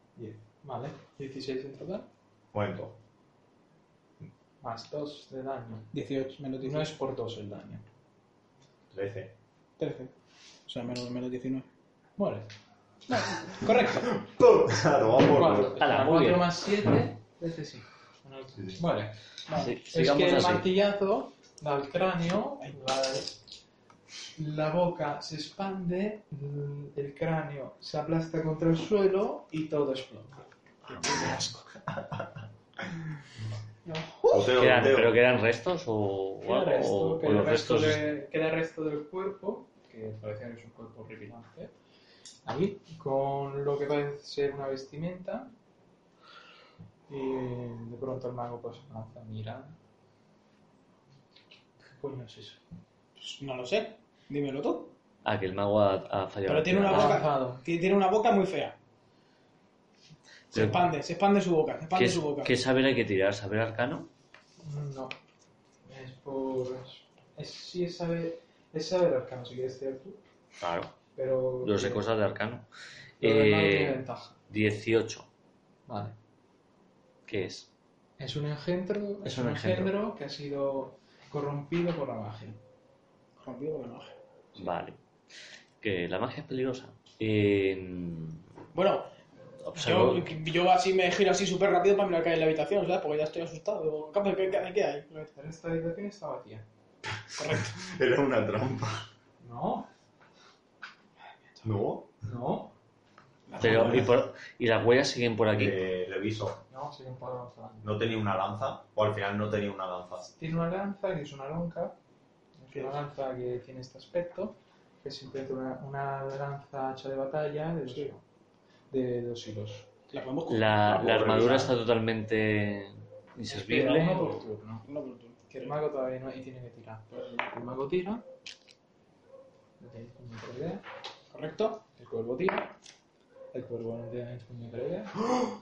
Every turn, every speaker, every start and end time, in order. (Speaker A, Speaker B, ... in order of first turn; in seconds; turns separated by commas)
Speaker A: 0.1-2.1, Speaker B: 2.5-3.0, Speaker A: 4.6-5.9, Speaker C: 5.9-6.9, Speaker A: 6.6-7.8, Speaker B: 8.9-9.3, Speaker C: 9.8-10.1, Speaker C: 10.7-11.7, Speaker A: 12.2-12.5, Speaker C: 13.1-14.0, Speaker A: 13.7-14.0, Speaker B: 13.8-15.9, Speaker A: 15.2-19.2, Speaker D: 15.8-16.5, Speaker C: 19.5-19.7, Speaker D: 19.5-20.6, Speaker A: 19.9-23.4, Speaker A: 24.4-30.4, Speaker C: 30.9-31.5, Speaker B: 31.2-32.3, Speaker C: 33.8-34.5, Speaker B: 34.3-35.2, Speaker D: 34.5-38.1, Speaker A: 36.4-41.7, Speaker A: 42.4-45.5, Speaker A: 47.1-49.8, Speaker A: 51.9-52.6, Speaker C: 53.2-54.9, Speaker D: 55.2-57.2, Speaker C: 56.5-58.8, Speaker A: 56.9-57.6, Speaker D: 60.5-60.9, Speaker C: 60.5-62.6, Speaker D: 61.9-64.1, Speaker A: 64.6-65.1, Speaker A: 65.8-70.2, Speaker D: 70.6-70.9, Speaker A: 71.2-72.0, Speaker D: 71.6-72.7, Speaker D: 73.2-75.3, Speaker A: 73.2-74.4, Speaker A: 75.9-76.1, Speaker D: 77.3-77.7, Speaker A: 78.2-82.6, Speaker D: 79.2-79.9, Speaker C: 83.4-84.2, Speaker D: 84.5-85.0, Speaker D: 85.8-88.4, Speaker C: 88.7-89.1, Speaker D: 89.6-90.3, Speaker C: 89.7-95.3, Speaker A: 95.3-96.7, Speaker B: 97.3-99.1, Speaker C: 97.4-97.8, Speaker A: 99.4-99.9, Speaker B: 101.6-102.1, Speaker A: 102.2-102.7, Speaker C: 103.5-104.1, Speaker D: 103.6-105.8, Speaker B: 105.5-106.6, Speaker A: 106.7-107.9, Speaker B: 107.8-110.3, Speaker A: 110.3-112.0, Speaker A: 112.6-118.2, Speaker A: 118.9-119.9, Speaker C: 120.1-120.8, Speaker D: 120.5-124.4, Speaker B: 120.8-121.7, Speaker A: 123.5-124.8, Speaker C: 124.8-125.7, Speaker A: 125.5-128.2, Speaker C: 127.1-127.5, Speaker A: 129.8-130.8, Speaker C: 131.3-131.8, Speaker A: 131.9-132.7, Speaker A: 133.5-135.5